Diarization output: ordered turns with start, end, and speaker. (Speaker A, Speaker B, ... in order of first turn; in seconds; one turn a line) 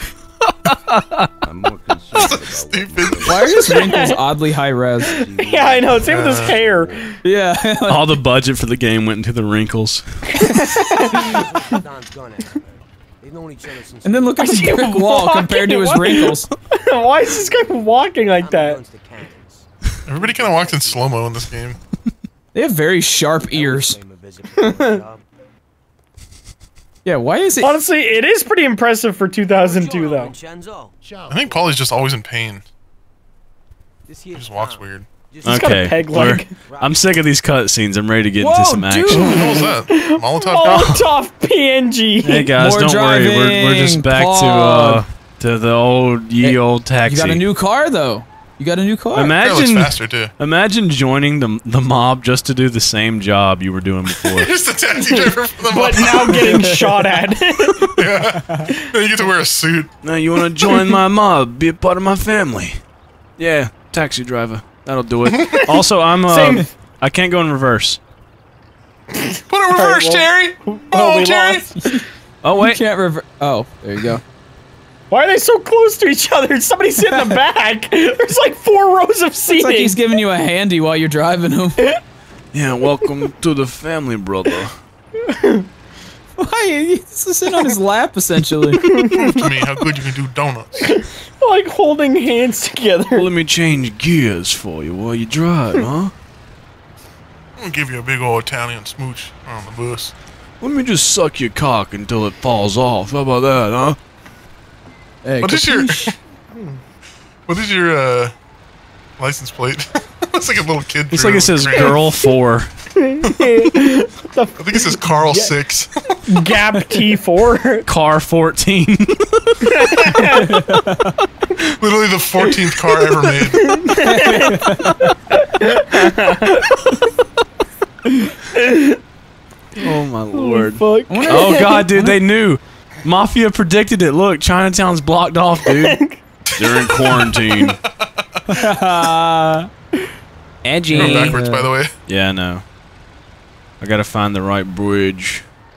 Speaker A: 0.6-1.3
Speaker B: 1.4-4.2
Speaker C: 2.1-4.0
Speaker D: 3.2-5.2
Speaker E: 3.8-4.2
Speaker B: 5.0-7.2
Speaker E: 5.0-7.2
Speaker C: 6.0-6.6
Speaker D: 7.2-8.2
Speaker A: 7.9-10.6
Speaker E: 10.3-11.8
Speaker F: 10.8-14.5
Speaker D: 14.0-16.5
Speaker E: 14.4-18.8
Speaker F: 17.3-21.2
Speaker C: 20.1-21.8
Speaker D: 22.5-24.0
Speaker F: 23.5-25.2
Speaker E: 24.6-25.0
Speaker D: 27.0-27.7
Speaker E: 27.6-30.3
Speaker F: 29.6-31.7
Speaker C: 31.3-32.6
Speaker F: 34.1-37.1
Speaker C: 34.3-35.1
Speaker E: 35.4-36.5
Speaker A: 35.4-39.4
Speaker D: 38.4-39.7
Speaker C: 39.1-41.0
Speaker E: 39.4-42.5
Speaker A: 40.6-41.1
Speaker A: 42.2-47.4
Speaker D: 42.6-45.0
Speaker D: 46.4-49.3
Speaker A: 49.1-54.5
Speaker C: 49.4-50.3
Speaker C: 54.2-56.7
Speaker E: 54.9-57.9
Speaker D: 56.6-56.9
Speaker C: 57.8-59.9
Speaker A: 60.0-62.8
Speaker A: 63.4-68.0
Speaker E: 65.4-66.7
Speaker E: 69.1-72.0
Speaker C: 69.5-71.7
Speaker A: 72.4-72.8
Speaker D: 72.5-74.2
Speaker E: 75.1-80.0
Speaker D: 79.5-81.9
Speaker A: 82.5-84.8
Speaker E: 85.2-85.7
Speaker D: 86.4-88.8
Speaker E: 88.7-89.8
Speaker C: 89.1-90.9
Speaker E: 90.8-93.3
Speaker A: 93.1-96.1
Speaker C: 97.6-100.1
Speaker A: 100.6-104.0
Speaker D: 105.2-106.1
Speaker C: 105.4-106.2
Speaker C: 107.5-108.3
Speaker C: 109.2-112.0
Speaker A: 111.1-112.7
Speaker E: 113.0-115.5
Speaker C: 114.6-116.2
Speaker E: 116.3-117.9
Speaker A: 117.8-120.2
Speaker E: 119.6-120.6
Speaker D: 120.3-121.2
Speaker C: 121.8-123.8
Speaker E: 123.5-124.7
Speaker D: 124.0-125.1
Speaker E: 125.3-126.7
Speaker E: 128.2-129.0
Speaker A: 129.7-136.0
Speaker E: 130.3-131.9
Speaker D: 131.1-132.2
Speaker E: 135.7-136.2
Speaker C: 136.5-138.4
Speaker A: 136.6-137.8
Speaker D: 138.5-139.7
Speaker A: 140.6-141.4
Speaker D: 140.9-141.7
Speaker C: 140.9-141.9
Speaker A: 142.1-142.6
Speaker A: 143.8-145.4